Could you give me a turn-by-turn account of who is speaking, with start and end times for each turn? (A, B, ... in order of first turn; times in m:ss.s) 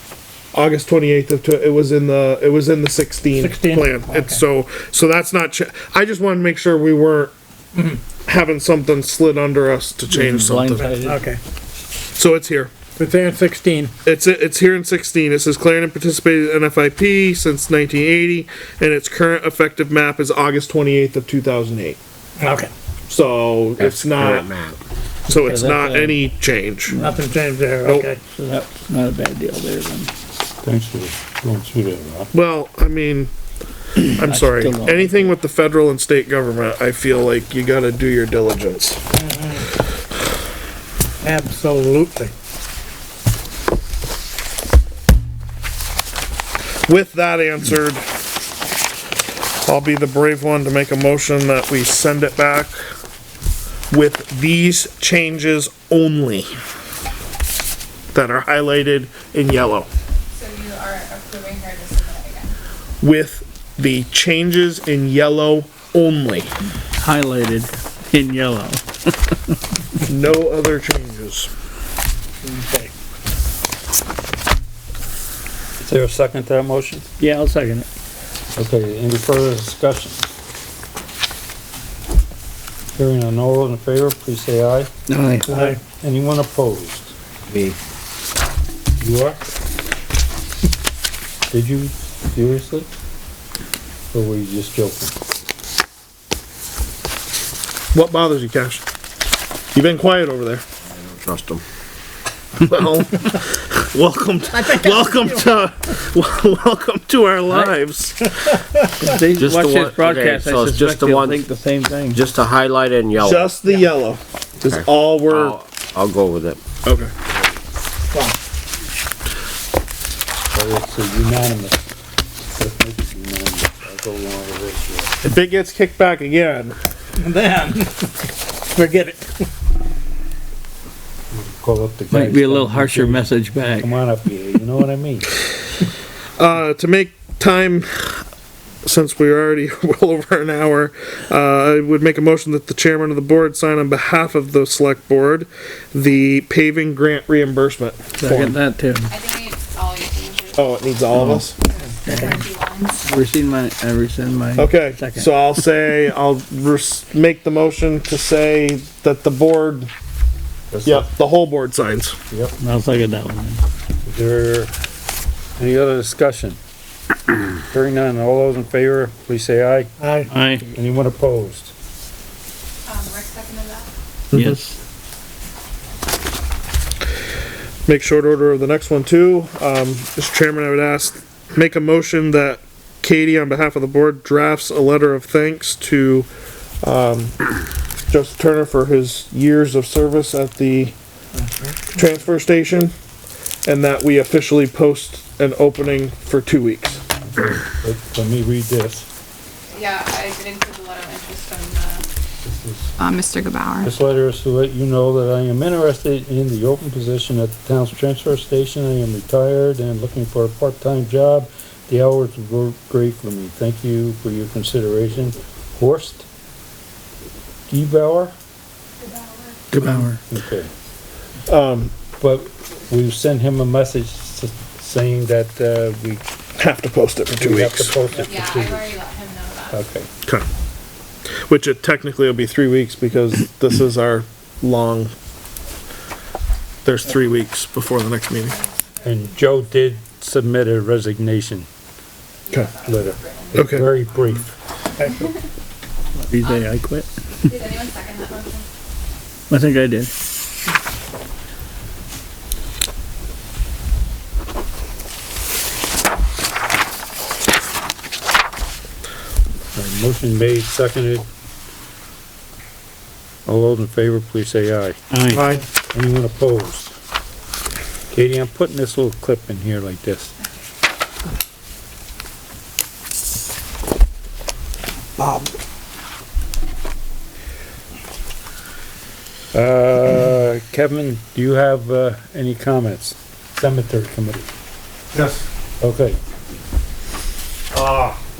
0:00.5-0:07.3 A
0:03.4-0:04.4 B
0:08.2-0:10.9 A
0:10.1-0:11.3 C
0:10.8-0:11.4 B
0:12.1-0:12.7 A
0:13.0-0:13.9 B
0:14.0-0:22.0 A
0:22.4-0:22.7 B
0:23.1-0:24.5 A
0:23.8-0:24.8 D
0:25.3-0:27.0 A
0:25.3-0:26.2 C
0:26.9-0:27.2 C
0:27.0-0:28.2 B
0:27.8-0:28.1 A
0:28.0-0:30.1 C
0:30.6-0:32.3 E
0:32.3-0:33.3 A
0:34.0-0:35.2 C
0:34.1-0:39.0 A
0:39.2-0:39.6 B
0:41.2-0:42.3 B
0:46.9-0:48.0 A
0:49.6-0:52.8 A
0:53.9-0:56.5 A
0:58.1-0:59.9 A
1:00.3-1:02.5 F
1:03.0-1:06.5 A
1:07.0-1:09.3 C
1:10.0-1:11.5 A
1:12.4-1:12.9 B
1:15.8-1:17.1 E
1:17.2-1:17.8 C
1:18.6-1:20.3 E
1:22.9-1:24.9 E
1:25.1-1:25.8 C
1:25.5-1:25.8 B
1:26.0-1:27.1 E
1:27.5-1:27.8 D
1:29.0-1:29.4 E
1:31.5-1:32.9 E
1:34.1-1:35.2 E
1:37.9-1:38.8 A
1:39.7-1:40.6 A
1:40.9-1:41.6 D
1:42.6-1:48.3 A
1:44.5-1:45.6 B
1:47.5-1:47.7 C
1:48.7-1:49.1 B
1:49.0-1:52.2 C
1:49.4-1:51.4 D
1:52.1-1:53.5 D
1:53.2-1:55.6 A
1:54.6-1:56.6 D
1:56.8-1:57.1 A
2:00.5-2:01.8 E
2:02.5-2:05.1 E
2:05.2-2:06.8 A
2:07.2-2:08.1 B
2:08.7-2:09.4 B
2:11.3-2:15.3 E
2:12.1-2:13.9 C
2:16.4-2:18.2 A
2:18.8-2:28.6 A
2:28.2-2:29.1 C
2:29.1-2:30.9 F
2:30.6-2:31.6 A
2:31.1-2:31.4 C
2:31.6-2:33.0 F
2:32.0-2:32.4 C
2:33.0-2:35.3 C
2:34.6-2:39.9 A
2:40.7-2:41.1 E
2:40.8-2:42.2 A
2:42.3-2:42.6 E
2:42.6-2:43.6 C
2:44.0-2:44.7 E
2:45.6-2:46.6 E
2:47.6-2:49.9 E
2:50.0-2:50.3 B
2:50.3-2:50.7 C
2:50.7-2:51.7 E
2:52.8-2:53.9 F
2:54.3-2:54.6 A
2:54.3-2:54.8 C
2:57.8-3:06.3 A
3:06.8-3:07.3 A
3:08.1-3:11.0 A
3:11.4-3:11.8 B
3:11.9-3:12.9 A
3:13.6-3:17.0 A
3:17.8-3:19.1 E
3:19.7-3:22.0 F
3:22.4-3:22.9 E
3:23.0-3:23.9 F
3:23.8-3:36.3 E
3:37.7-3:38.3 E
3:39.0-3:39.6 F
3:39.7-3:40.2 C
3:39.8-3:40.7 E
3:41.4-3:41.9 A
3:42.2-3:46.2 E
3:46.6-3:48.0 A
3:47.4-3:49.0 E
3:48.2-3:49.8 F
3:49.7-3:50.1 E
3:51.4-3:55.1 A
3:56.8-3:58.6 A
3:58.4-3:59.4 F
3:59.0-4:01.7 E
4:02.4-4:04.4 F
4:02.8-4:04.5 E
4:03.5-4:03.9 A
4:05.0-4:05.4 B
4:06.1-4:07.1 C
4:06.4-4:06.8 F
4:07.4-4:08.7 F
4:09.5-4:10.1 C
4:19.7-4:21.2 E
4:23.4-4:25.0 E
4:25.1-4:25.4 C
4:25.3-4:25.6 A
4:25.9-4:26.9 E
4:28.1-4:30.3 E
4:35.2-4:35.5 A
4:39.5-4:44.5 E
4:45.1-4:45.4 A
4:45.8-4:46.2 E
4:47.7-4:48.2 E